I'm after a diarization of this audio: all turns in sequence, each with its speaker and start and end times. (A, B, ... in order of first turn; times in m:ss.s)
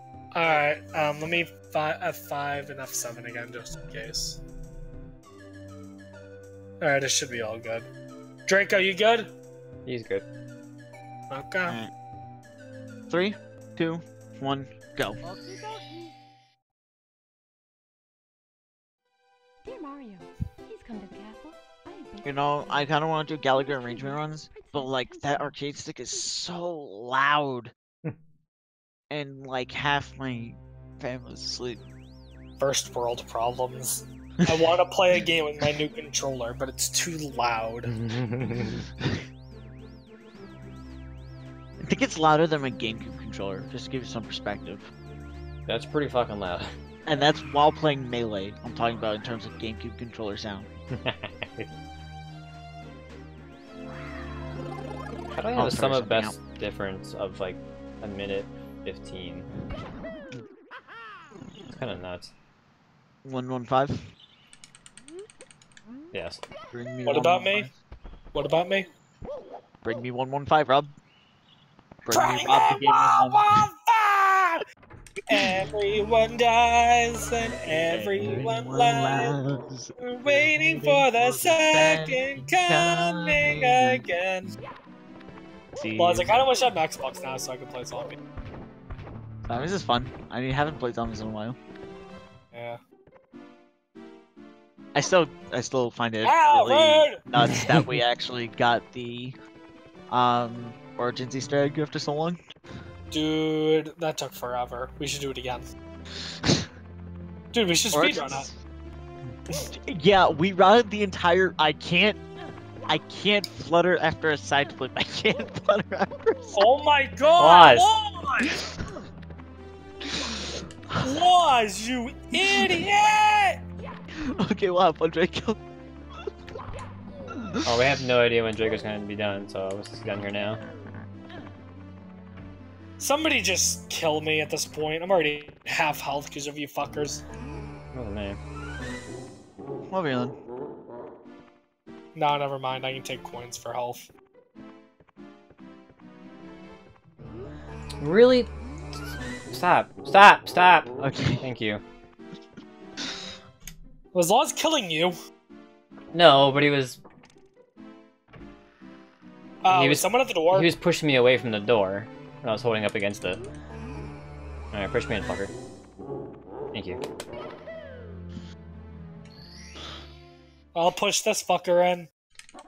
0:00.3-0:04.4 A
0:06.8-0:07.9 A
0:08.5-0:09.3 A
0:09.9-0:10.3 B
0:11.3-0:11.8 A
0:11.7-0:11.9 C
0:13.1-0:15.2 C
0:19.6-0:22.9 D
0:22.2-0:27.7 C
0:23.7-0:25.6 D
0:29.1-0:31.8 C
0:32.6-0:37.9 A
0:37.9-0:38.8 B
0:41.8-0:44.9 C
0:45.7-0:46.7 B
0:47.1-0:50.7 C
0:50.9-0:51.7 B
0:55.3-0:59.5 B
0:55.6-0:56.4 C
1:01.7-1:02.3 B
1:03.2-1:04.0 C
1:06.1-1:06.4 B
1:06.7-1:07.8 C
1:07.0-1:07.7 A
1:08.3-1:08.9 A
1:09.8-1:11.0 C
1:12.0-1:13.7 C
1:12.1-1:14.6 A
1:15.3-1:19.4 A
1:17.9-1:24.0 C
1:17.9-1:18.4 B
1:20.0-1:24.5 A
1:25.8-1:26.3 C
1:26.0-1:28.2 A
1:29.5-1:31.6 C
1:32.5-1:32.8 A
1:34.9-1:39.4 C
1:36.2-1:37.2 A
1:37.4-1:38.0 B
1:40.1-1:42.4 C
1:43.1-1:45.7 A
1:46.4-1:46.7 C
1:47.5-1:48.5 A
1:47.9-1:48.6 C
1:49.5-1:52.2 C
1:52.9-1:56.7 C
1:56.5-1:58.6 A
1:57.4-1:57.9 B
2:00.1-2:00.4 C
2:01.0-2:03.6 A
2:04.2-2:05.6 C
2:07.6-2:10.6 B
2:13.0-2:17.2 A
2:17.9-2:18.4 B
2:19.9-2:20.4 C
2:22.2-2:24.1 A
2:28.0-2:28.5 B
2:29.5-2:31.8 B
2:31.0-2:31.5 C
2:34.1-2:35.2 A
2:36.1-2:37.0 B
2:39.6-2:40.7 A
2:39.7-2:43.4 B
2:44.7-2:45.5 B
2:46.7-2:47.0 B
2:50.8-2:52.1 A